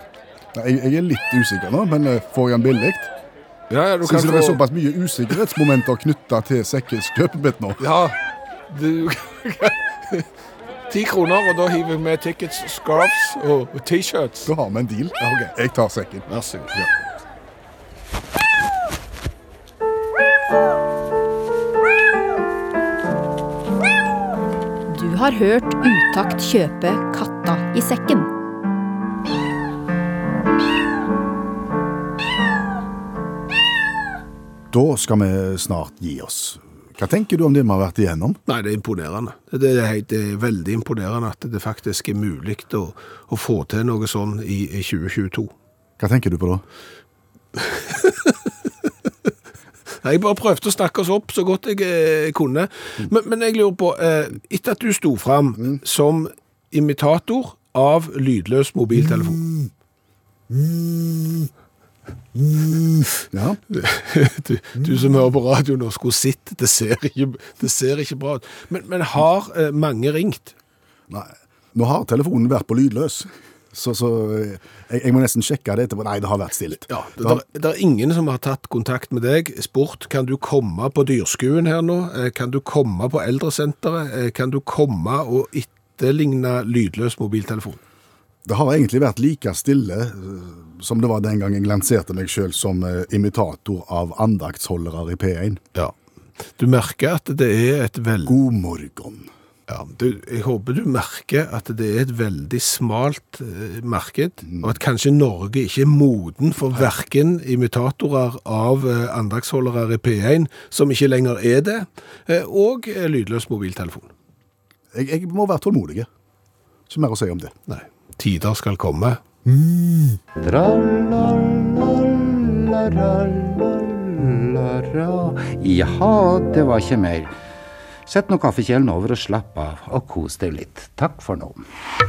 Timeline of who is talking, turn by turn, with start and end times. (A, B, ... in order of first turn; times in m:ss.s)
0:00.5-0:03.1 A
0:03.7-0:04.6 B
0:04.0-0:07.8 A
0:07.8-0:08.2 B
0:08.7-0:10.3 B
0:10.9-0:14.5 B
0:14.4-0:16.2 A
0:15.2-0:15.5 B
0:16.3-0:16.9 B
0:24.9-0:28.3 C
0:34.7-0:38.4 A
0:38.5-0:45.5 B
0:46.0-0:46.6 A
0:47.6-0:48.4 B
0:50.0-0:59.4 B
1:03.3-1:03.6 A
1:03.7-1:10.5 B
1:11.1-1:17.4 A
1:16.9-1:27.8 B
1:28.4-1:35.6 A
1:36.6-1:38.4 B
1:38.2-1:39.3 A
1:39.7-1:54.1 B
1:44.5-1:44.8 A
1:54.9-1:56.1 A
1:56.9-1:57.5 A
1:57.7-1:59.2 B
2:00.4-2:07.3 D
2:08.0-2:11.6 D